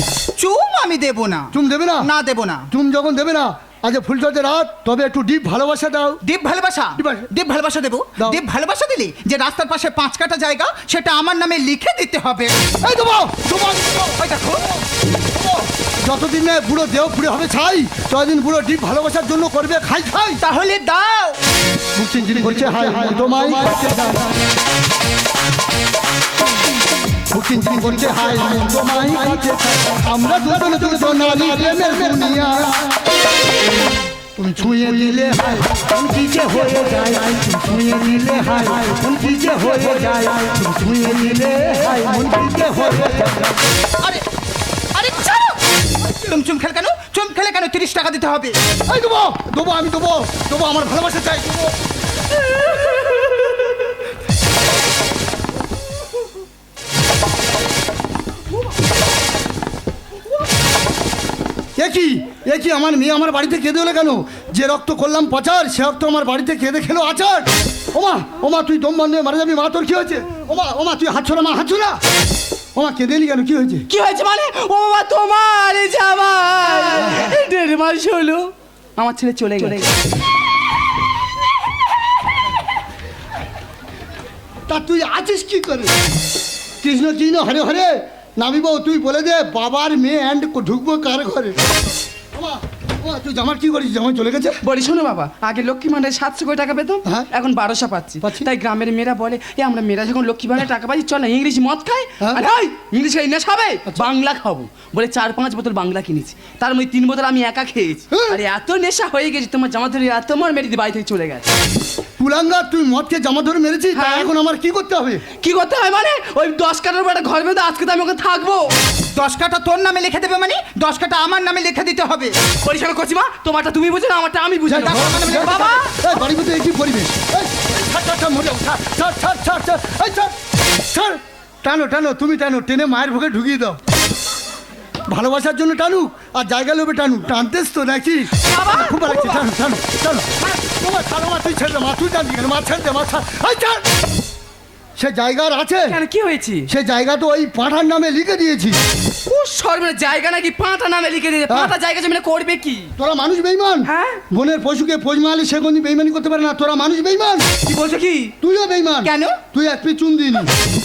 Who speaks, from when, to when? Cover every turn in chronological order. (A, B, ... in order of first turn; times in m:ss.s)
0:00.4-0:02.7 A
0:01.5-0:02.1 B
0:02.7-0:06.2 B
0:06.2-0:12.5 A
0:07.0-0:07.3 B
0:12.8-0:14.1 B
0:14.2-0:14.6 A
0:15.4-0:20.4 B
0:20.4-0:21.4 A
0:22.0-0:24.3 B
0:27.3-0:32.9 B
0:34.4-0:43.6 B
0:36.0-0:37.3 A
0:44.9-0:48.5 A
0:48.9-0:51.7 B
1:01.8-1:12.0 B
1:12.7-1:13.8 B
1:13.9-1:19.9 C
1:24.7-1:25.9 B
1:26.8-1:31.5 B
1:32.3-1:34.6 B
1:34.6-1:51.5 C
1:38.2-1:38.5 B
1:48.1-1:48.4 B
1:52.2-1:55.2 B
1:53.9-1:54.3 C
1:55.4-1:58.7 C
1:59.1-2:02.3 A
2:02.6-2:05.9 C
2:04.7-2:10.3 B
2:04.7-2:05.8 A
2:10.9-2:13.8 B
2:15.1-2:23.8 B
2:18.5-2:19.3 C
2:25.0-2:26.0 B
2:25.9-2:26.7 C
2:26.7-2:28.8 B
2:29.3-2:32.9 C
2:31.5-2:31.7 B
2:33.0-2:37.4 B
2:33.8-2:34.2 C
2:37.7-2:38.3 C
2:38.4-2:40.5 B
2:39.0-2:39.4 A